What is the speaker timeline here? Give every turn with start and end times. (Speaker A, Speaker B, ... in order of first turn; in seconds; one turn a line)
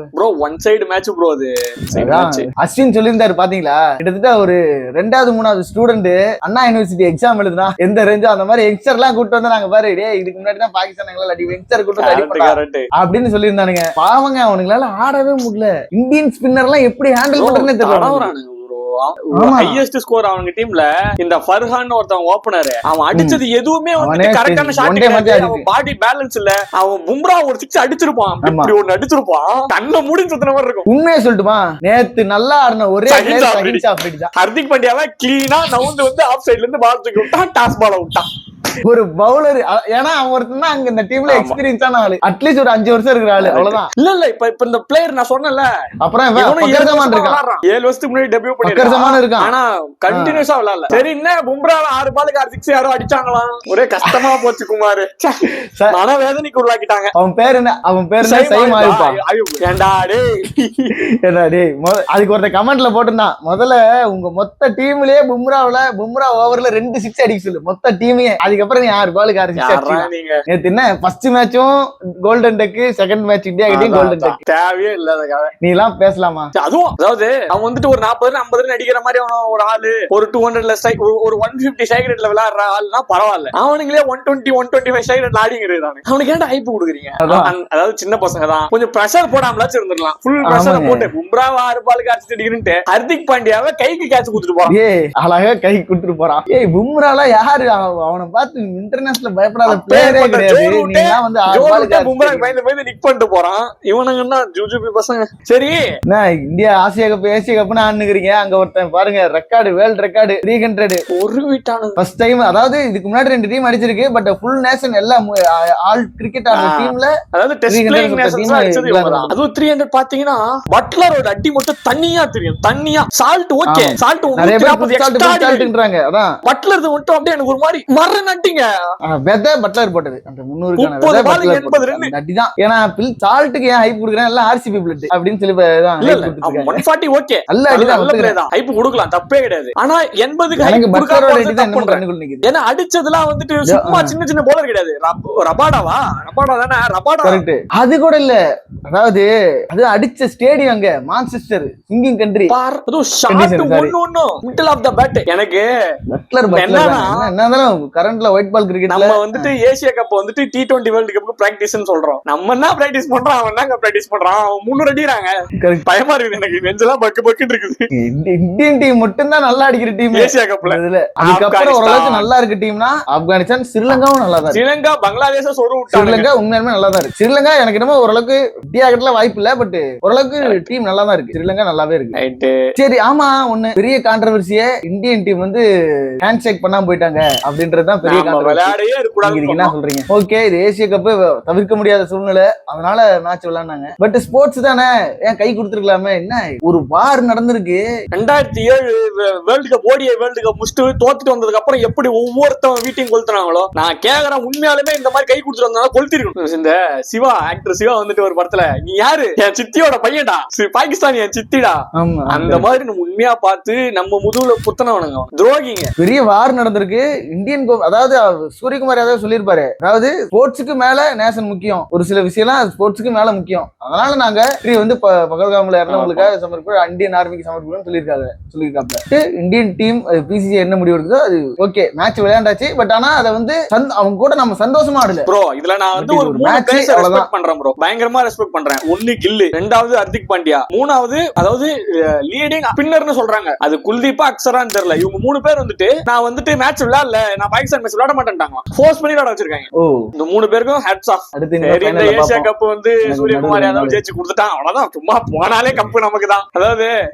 Speaker A: 0.1-2.5
Speaker B: 2.0-18.3
Speaker A: 12.0-12.9
Speaker A: 17.4-30.9
Speaker B: 19.4-19.8
Speaker B: 23.1-23.4
Speaker B: 24.0-25.6
Speaker B: 28.4-28.7
Speaker B: 30.9-34.3
Speaker A: 33.1-33.8
Speaker A: 34.4-38.3
Speaker B: 38.9-43.9
Speaker A: 41.3-41.6
Speaker A: 43.4-45.7
Speaker B: 46.0-47.4
Speaker A: 46.4-55.3
Speaker B: 48.6-49.5
Speaker B: 50.1-50.4
Speaker B: 54.1-54.4
Speaker A: 55.9-57.1
Speaker B: 57.2-59.2
Speaker A: 58.2-60.9
Speaker B: 61.2-71.7
Speaker A: 69.6-70.4
Speaker B: 72.2-74.4
Speaker A: 73.7-75.5
Speaker B: 75.6-76.5
Speaker A: 76.6-94.7
Speaker B: 87.2-87.5
Speaker B: 90.5-91.1
Speaker B: 94.7-102.5
Speaker A: 99.7-105.8
Speaker B: 106.1-111.0
Speaker A: 111.1-112.0
Speaker B: 112.0-117.1
Speaker A: 116.5-125.7
Speaker B: 117.7-119.3
Speaker B: 123.7-126.3
Speaker A: 126.5-128.7
Speaker B: 129.2-136.8
Speaker A: 130.8-132.1
Speaker A: 136.0-147.4
Speaker B: 137.5-138.4
Speaker B: 140.6-142.5
Speaker B: 143.7-144.1
Speaker B: 147.2-148.4
Speaker B: 148.9-152.5
Speaker A: 152.5-155.7
Speaker B: 153.3-153.9
Speaker B: 156.2-159.5
Speaker A: 156.5-157.2
Speaker A: 158.9-165.3
Speaker A: 165.8-167.8
Speaker B: 167.9-174.6
Speaker A: 170.2-172.3
Speaker A: 174.5-176.3
Speaker B: 175.9-182.2
Speaker A: 182.2-182.6
Speaker B: 182.8-185.6
Speaker B: 186.2-197.8
Speaker A: 188.1-189.7
Speaker A: 198.1-211.8
Speaker B: 212.0-212.7
Speaker A: 212.3-215.9
Speaker B: 216.0-235.3
Speaker A: 225.9-226.3
Speaker A: 235.3-249.7
Speaker B: 236.0-237.3
Speaker A: 250.2-256.9
Speaker B: 251.4-252.5
Speaker B: 253.1-254.0